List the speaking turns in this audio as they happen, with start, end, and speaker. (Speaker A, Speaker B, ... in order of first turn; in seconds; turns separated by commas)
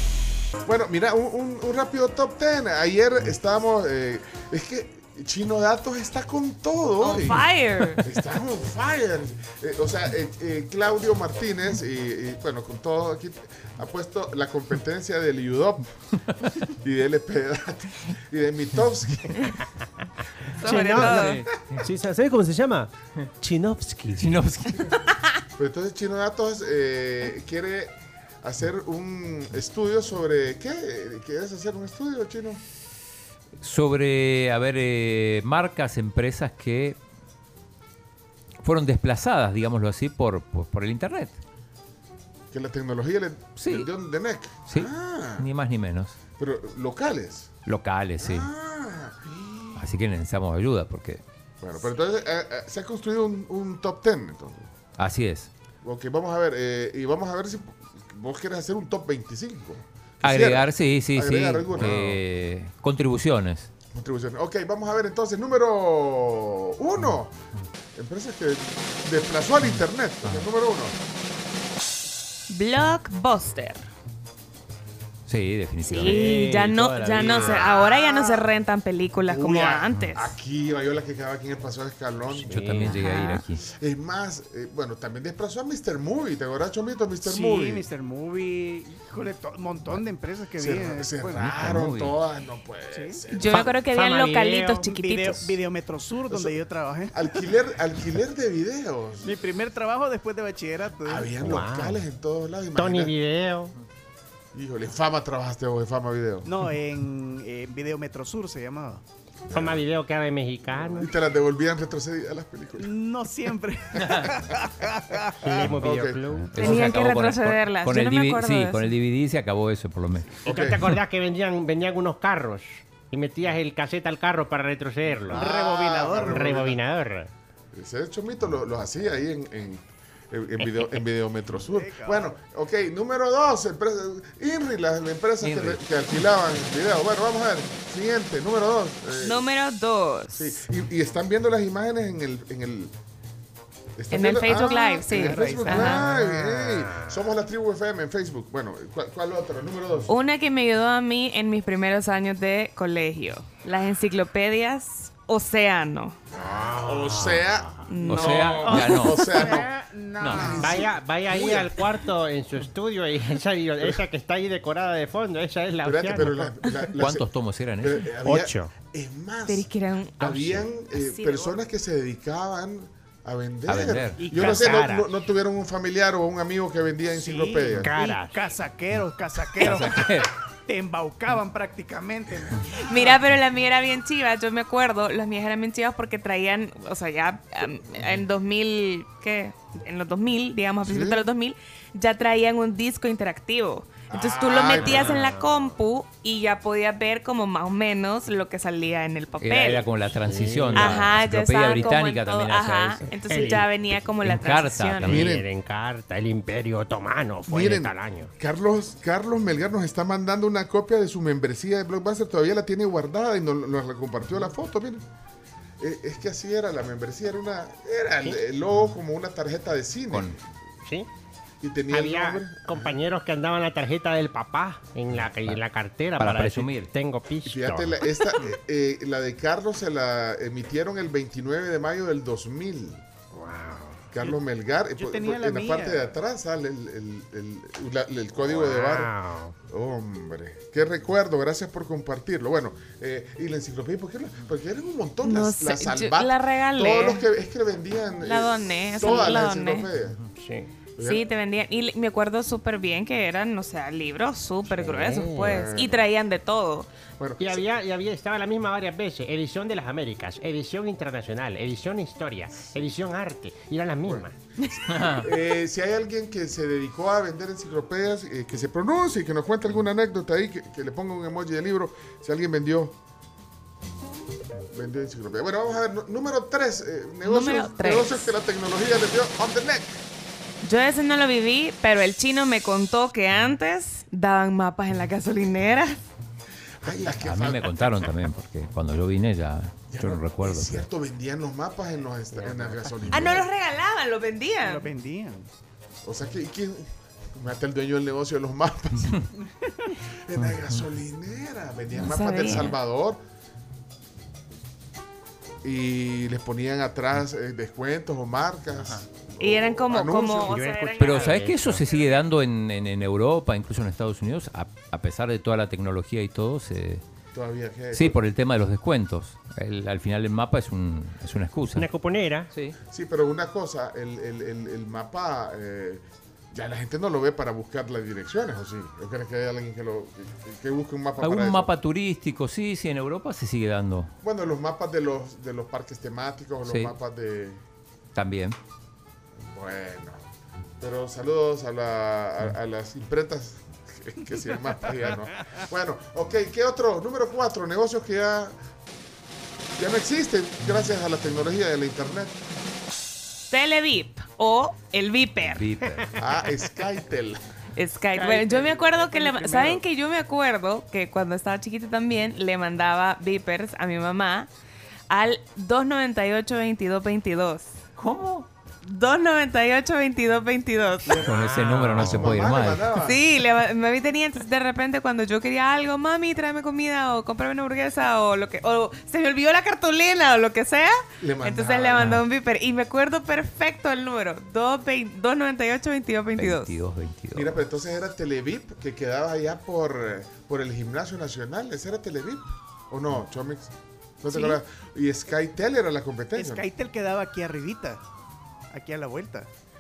Speaker A: 0.7-7.5, Speaker B: 7.0-8.0, Speaker A: 8.0-15.9, Speaker A: 16.8-19.5, Speaker B: 20.6-21.4, Speaker C: 20.6-24.4, Speaker D: 21.0-21.4, Speaker D: 24.2-25.0, Speaker A: 25.6-32.6, Speaker D: 33.6-37.0, Speaker D: 38.6-41.4, Speaker A: 42.5-45.5, Speaker D: 43.6-43.9, Speaker D: 44.7-46.2, Speaker A: 46.4-47.5, Speaker D: 47.7-48.5, Speaker A: 48.2-49.9, Speaker D: 49.8-51.2, Speaker A: 51.6-54.7, Speaker D: 55.0-55.5, Speaker A: 55.8-62.2, Speaker D: 60.2-63.7, Speaker A: 63.9-67.4, Speaker A: 68.0-71.0, Speaker B: 72.5-73.9, Speaker D: 75.3-76.2, Speaker B: 75.8-80.3, Speaker C: 76.0-77.3, Speaker A: 77.1-78.0, Speaker A: 79.3-82.8, Speaker C: 82.3-82.9, Speaker D: 82.5-83.6, Speaker B: 82.8-83.4, Speaker A: 83.7-87.8, Speaker E: 87.2-91.7, Speaker A: 90.6-93.7, Speaker D: 91.3-92.2, Speaker E: 92.9-93.2, Speaker B: 93.3-95.6, Speaker C: 93.5-94.8, Speaker E: 94.8-97.3, Speaker A: 96.3-96.6, Speaker A: 97.1-99.3, Speaker E: 99.2-101.3, Speaker A: 101.0-103.1, Speaker C: 101.4-102.0, Speaker C: 102.8-103.7, Speaker A: 104.5-106.5, Speaker E: 106.5-109.0, Speaker A: 109.5-109.8, Speaker C: 109.5-111.1, Speaker A: 110.9-112.9, Speaker E: 112.8-115.4, Speaker A: 114.0-114.3, Speaker C: 115.4-116.5, Speaker A: 115.6-116.2, Speaker D: 116.5-120.4, Speaker B: 116.5-118.9, Speaker A: 120.4-120.9, Speaker C: 120.5-127.3, Speaker A: 125.3-125.5, Speaker E: 125.3-126.7, Speaker A: 126.1-126.8, Speaker A: 127.7-139.5, Speaker E: 131.6-132.3, Speaker D: 135.4-135.8, Speaker B: 139.2-140.6, Speaker A: 140.3-142.9, Speaker A: 144.0-150.1, Speaker B: 144.1-146.0, Speaker E: 145.1-146.1, Speaker C: 145.9-147.3, Speaker B: 150.1-156.2, Speaker A: 156.3-159.7, Speaker C: 156.3-157.8, Speaker B: 157.9-158.7, Speaker D: 158.1-159.5, Speaker C: 159.3-159.7, Speaker E: 159.4-160.8, Speaker D: 160.2-160.6, Speaker C: 160.2-166.6, Speaker A: 160.4-161.8, Speaker A: 165.8-167.3, Speaker D: 167.0-168.1, Speaker A: 167.8-169.7, Speaker C: 168.2-168.7, Speaker B: 169.5-170.3, Speaker A: 170.2-177.9, Speaker C: 170.2-170.6, Speaker B: 170.9-171.6, Speaker D: 173.7-174.3, Speaker C: 174.2-175.1, Speaker E: 177.2-183.2, Speaker C: 177.8-178.4, Speaker D: 179.6-180.3, Speaker B: 182.8-199.8, Speaker A: 190.8-191.2, Speaker A: 194.1-195.2, Speaker C: 194.7-195.7, Speaker D: 199.4-205.3, Speaker C: 200.2-201.1, Speaker B: 200.7-205.2, Speaker C: 203.2-203.7, Speaker A: 205.1-205.5, Speaker C: 205.1-208.3, Speaker A: 207.5-215.0, Speaker A: 215.8-220.4, Speaker D: 220.1-220.4, Speaker A: 221.6-223.0, Speaker C: 221.9-227.9, Speaker D: 225.1-225.6, Speaker D: 226.2-226.9, Speaker A: 227.4-233.1, Speaker C: 233.3-234.1, Speaker A: 234.1-239.1, Speaker E: 234.9-236.1, Speaker C: 238.4-239.6, Speaker A: 239.7-250.2, Speaker B: 245.2-247.3, Speaker B: 248.2-249.9, Speaker C: 250.4-250.7, Speaker A: 251.0-251.2, Speaker B: 251.0-256.9, Speaker C: 254.8-255.7, Speaker A: 255.4-256.1, Speaker A: 257.2-257.6, Speaker C: 257.4-264.4, Speaker A: 264.9-272.9, Speaker D: 264.9-265.3, Speaker A: 274.7-280.0, Speaker B: 277.2-278.3, Speaker B: 280.6-286.0, Speaker A: 286.8-288.2, Speaker D: 287.1-290.9, Speaker A: 289.9-293.5, Speaker C: 292.4-292.7, Speaker B: 293.1-294.9, Speaker E: 294.6-295.5, Speaker A: 296.0-299.3, Speaker A: 300.2-303.2, Speaker B: 302.0-302.8, Speaker A: 305.6-310.6, Speaker B: 309.4-311.4, Speaker C: 310.5-311.8, Speaker D: 311.0-317.0, Speaker A: 317.3-318.2, Speaker D: 317.9-321.9, Speaker C: 321.8-322.5, Speaker D: 322.5-322.8, Speaker A: 322.9-331.7, Speaker D: 331.2-334.1, Speaker A: 334.2-337.6, Speaker D: 336.7-336.9, Speaker D: 338.1-338.6, Speaker A: 339.4-340.2, Speaker A: 340.8-348.6, Speaker A: 349.8-352.4, Speaker B: 353.5-355.8, Speaker D: 355.5-356.1, Speaker A: 356.2-357.4, Speaker B: 357.8-364.5, Speaker A: 358.2-359.8, Speaker E: 358.3-359.6, Speaker B: 365.1-367.7, Speaker D: 368.0-368.5, Speaker B: 368.8-371.2, Speaker A: 371.1-373.2, Speaker C: 371.2-372.4, Speaker D: 371.2-372.9, Speaker B: 373.0-386.7, Speaker A: 381.2-382.1, Speaker D: 382.0-382.2, Speaker D: 386.4-387.6, Speaker A: 387.3-396.6, Speaker B: 394.3-394.6, Speaker E: 396.4-398.0, Speaker E: 398.7-399.5